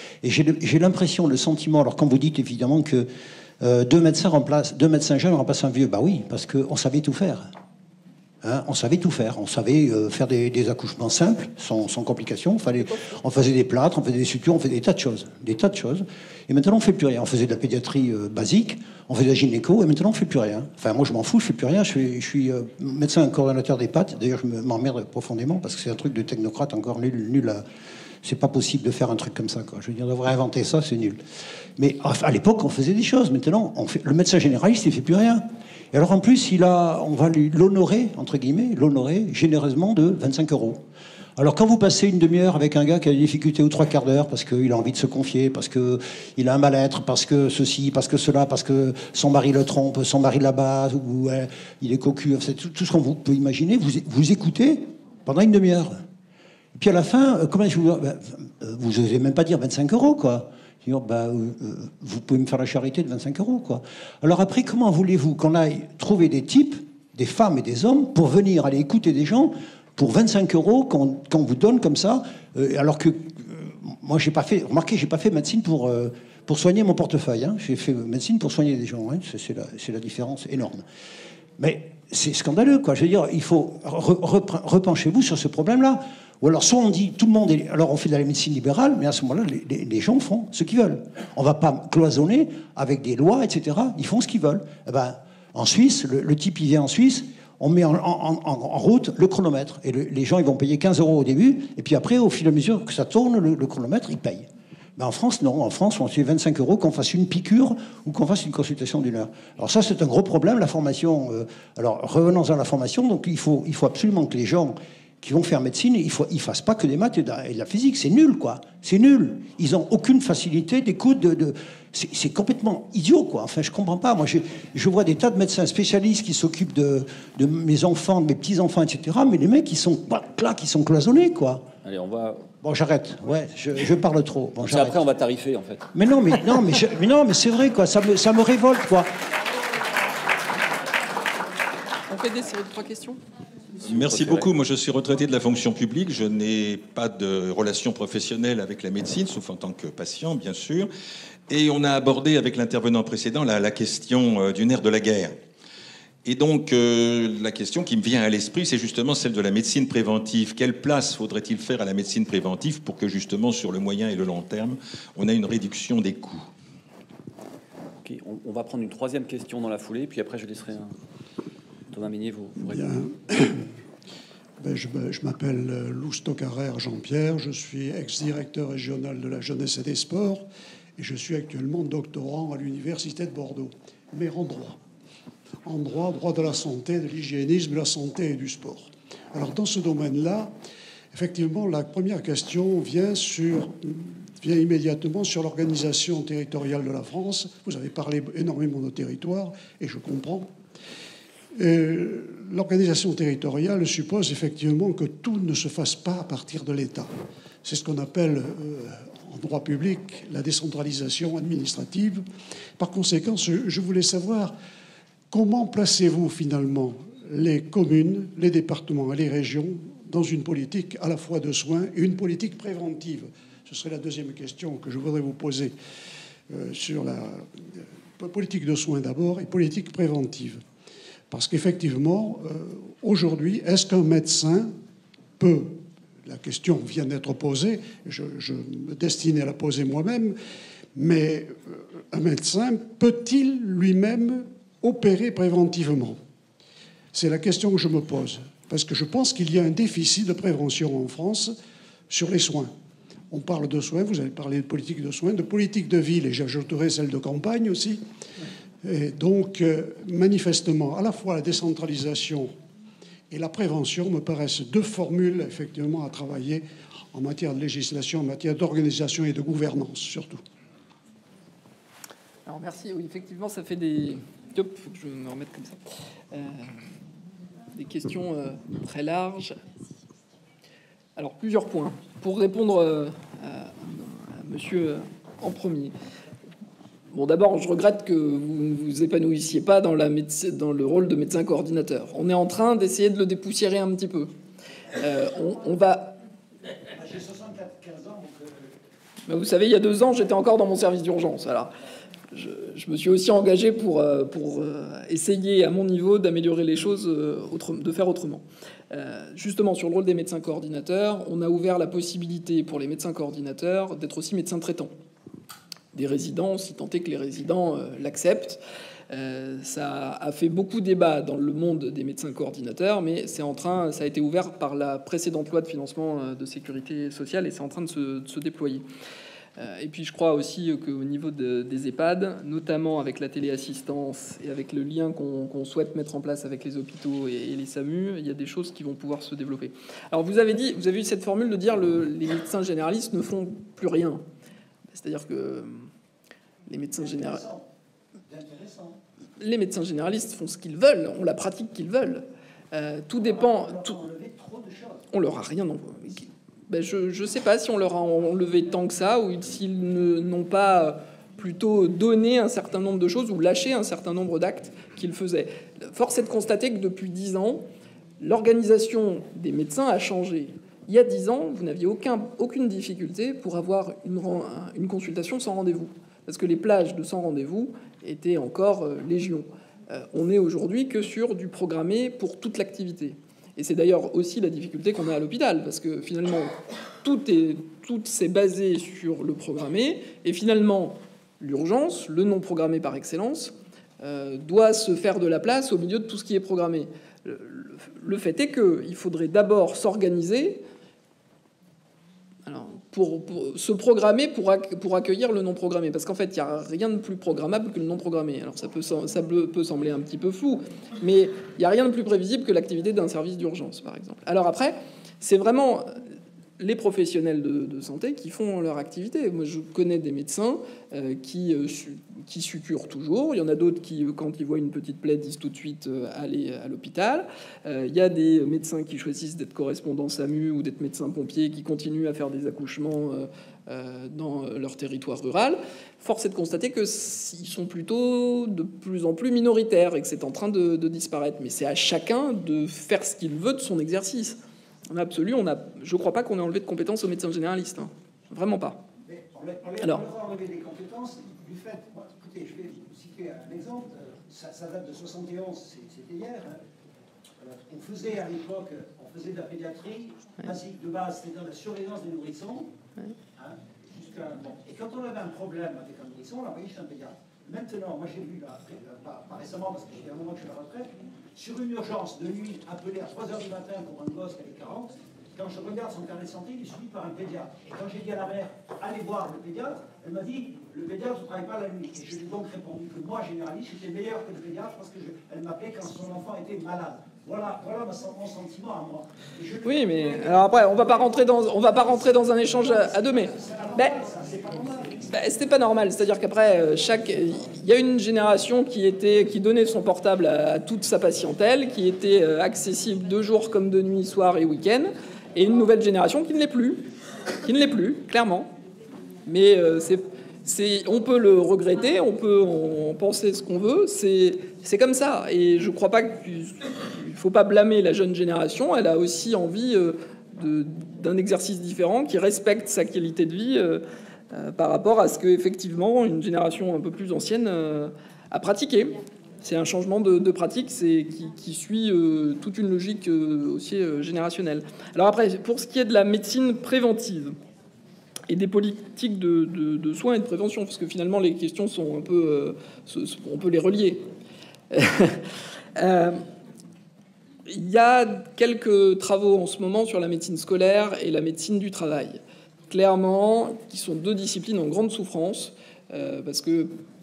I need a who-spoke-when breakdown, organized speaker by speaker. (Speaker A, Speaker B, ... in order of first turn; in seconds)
Speaker A: 0.2-3.1, 3.6-7.5, 8.4-27.6, 28.2-31.2, 31.8-40.8, 41.4-56.0, 56.7-80.8, 81.6-131.7, 132.6-135.0, 135.9-139.1
Speaker B: 131.8-132.5, 134.6-135.9, 143.9-144.5, 168.0-170.9, 171.9-173.0
Speaker C: 142.1-143.2, 272.4-275.8, 276.3-276.7, 277.7-279.6, 281.2-285.9, 287.1-294.3, 295.0-296.2, 299.3-301.7, 302.3-314.9, 315.9-328.8, 329.6-344.2, 344.9-345.9, 346.7-347.4, 349.4-354.0, 355.1-367.6, 368.2-400.6, 402.4-416.0, 416.6-444.4, 444.9-448.8, 489.6-494.0, 495.0-506.8, 507.4-508.5, 509.2-537.3, 538.3-544.0, 544.7-545.2, 545.7-546.2, 547.5-556.7
Speaker D: 143.8-150.9, 151.5-155.3, 156.2-166.5
Speaker E: 172.6-173.7, 174.6-180.4, 181.0-184.8, 185.6-190.5, 191.1-200.5, 201.6-207.1, 207.6-212.2, 212.8-214.5, 215.3-225.7, 226.5-230.6, 231.3-234.7, 235.4-240.3, 240.9-246.2, 247.1-251.5, 252.1-252.7, 253.3-258.0, 258.8-262.5, 263.3-270.4
Speaker F: 296.9-298.7, 347.0-347.6, 348.3-349.0, 353.2-355.1, 449.0-456.6, 457.4-462.7, 463.4-490.7, 492.9-495.0